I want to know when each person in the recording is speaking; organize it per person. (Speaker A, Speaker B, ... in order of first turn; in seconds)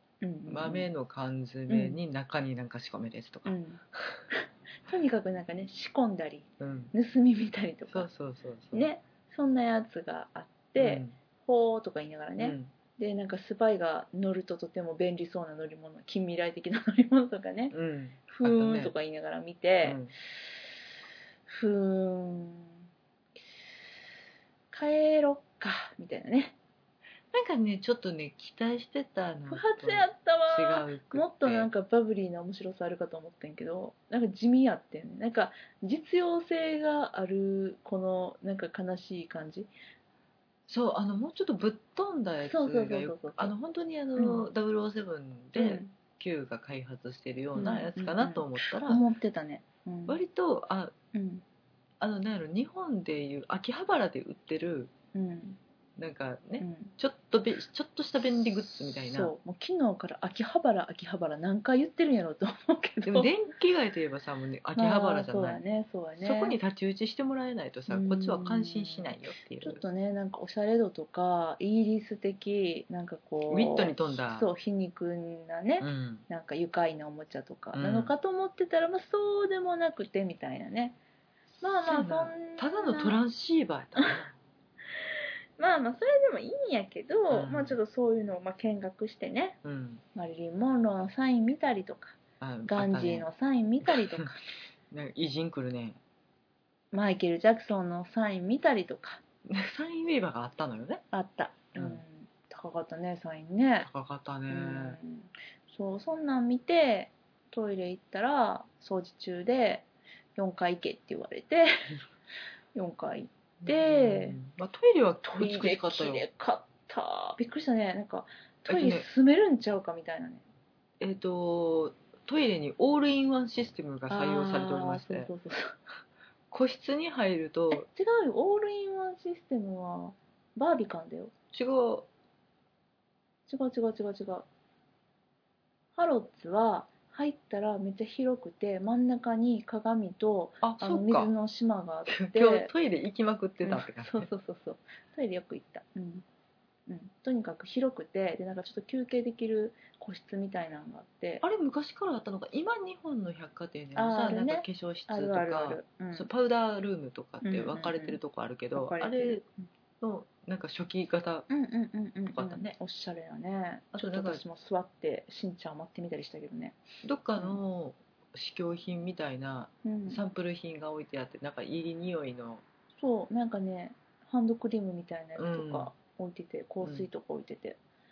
Speaker A: 0.2-0.9, 1.7-2.0, 3.5-3.8, 4.3-8.1, 8.7-17.7, 18.4-20.0, 21.5-22.8, 24.7-26.6, 29.5-39.7, 42.4-43.5, 44.2-44.5, 45.5-45.9, 47.5-50.2, 51.1-51.4, 55.1-55.6, 56.6-56.9, 59.1-63.3, 64.8-66.6, 67.9-81.0, 81.6-83.2, 85.6-89.6, 90.1-94.5, 96.9-99.2, 101.1-103.9, 104.5-112.0, 112.7-114.4, 115.2-120.4, 124.1-125.7, 127.7-131.3, 133.5-134.5, 136.0-142.7, 143.6-146.2, 146.9-151.4, 153.9-156.3, 157.4-158.2, 158.7-159.7, 161.5-166.8, 169.8-170.2, 173.0-177.8
Speaker B: 0.5-4.2, 6.6-6.9, 7.9-8.9, 10.8-11.1, 12.4-12.7, 17.7-18.9, 19.8-20.1, 27.3-31.7, 40.7-49.0, 50.1-50.9, 52.0-54.9, 56.0-59.3, 63.0-65.6, 66.2-69.8, 73.5-74.5, 75.8-76.2, 77.7-78.1, 81.8-84.3, 87.3-87.8, 89.6-90.0, 92.4-93.3, 93.9-94.2, 94.9-96.0, 99.4-101.0, 101.8-102.0, 103.8-105.0, 113.6-116.2, 118.7-119.1, 121.0-125.3, 126.5-127.9, 131.5-132.1, 140.6-141.3, 142.1-144.3, 151.4-159.4, 160.0-161.5, 162.3-162.8, 163.9-164.4, 167.0-172.6, 175.4-175.9, 176.8-177.1